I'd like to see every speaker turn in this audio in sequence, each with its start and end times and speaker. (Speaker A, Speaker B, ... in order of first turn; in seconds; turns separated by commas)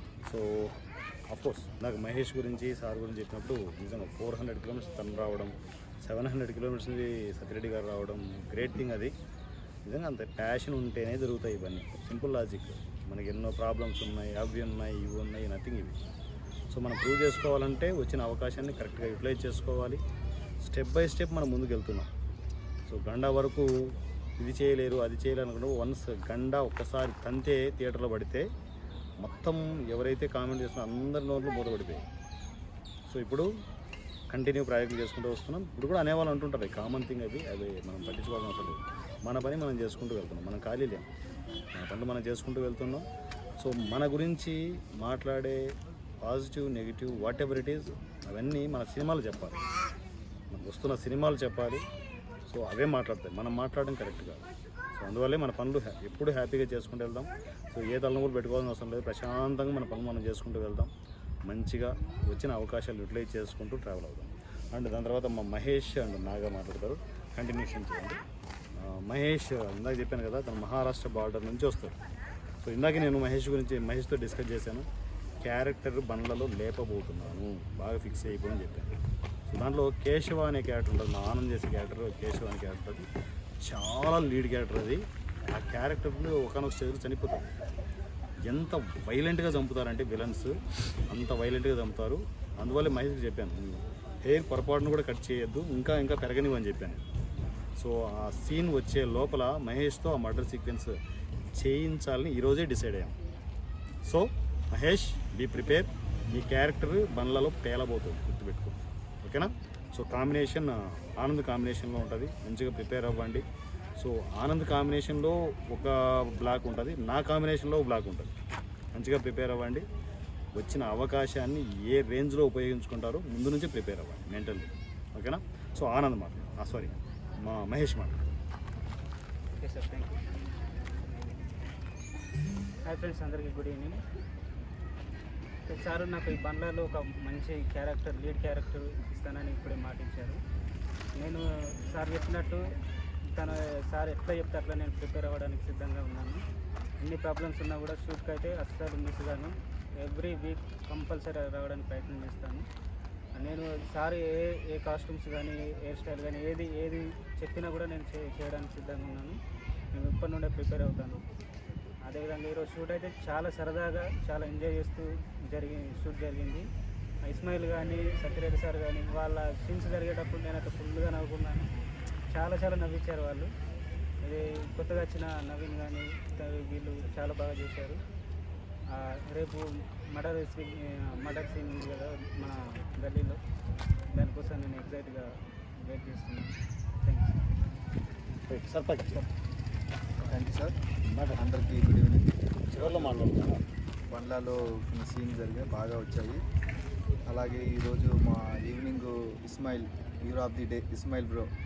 Speaker A: 0.2-9.1, Speaker A: 9.9-16.0, Speaker A: 16.7-20.0, Speaker A: 20.6-22.1, Speaker A: 22.9-28.5, Speaker A: 29.2-32.1, Speaker A: 33.1-33.5, Speaker A: 34.3-41.1, Speaker A: 41.8-43.0, Speaker A: 43.6-49.6, Speaker A: 50.5-51.9, Speaker A: 52.5-60.9, Speaker A: 61.5-68.2, Speaker A: 68.8-72.0, Speaker A: 72.6-74.9, Speaker A: 75.4-83.1, Speaker A: 83.6-87.5, Speaker A: 88.5-97.0, Speaker A: 97.8-101.0, Speaker A: 101.5-103.2, Speaker A: 104.0-113.4, Speaker A: 114.0-118.3, Speaker A: 118.9-119.9, Speaker A: 120.5-128.4, Speaker B: 129.6-130.2, Speaker B: 132.9-134.0, Speaker B: 135.7-140.4, Speaker B: 141.2-142.7, Speaker B: 143.3-146.4, Speaker B: 147.0-152.7, Speaker B: 153.4-159.4, Speaker B: 159.9-161.2, Speaker B: 162.0-166.7, Speaker B: 167.2-171.8, Speaker B: 172.3-173.5, Speaker B: 174.2-178.0, Speaker B: 178.9-183.4, Speaker B: 184.1-187.4, Speaker A: 188.5-189.2, Speaker C: 190.2-190.8, Speaker A: 191.1-191.4, Speaker C: 191.4-192.2, Speaker A: 192.7-193.6, Speaker B: 192.8-193.3, Speaker C: 194.1-196.4, Speaker C: 197.3-201.5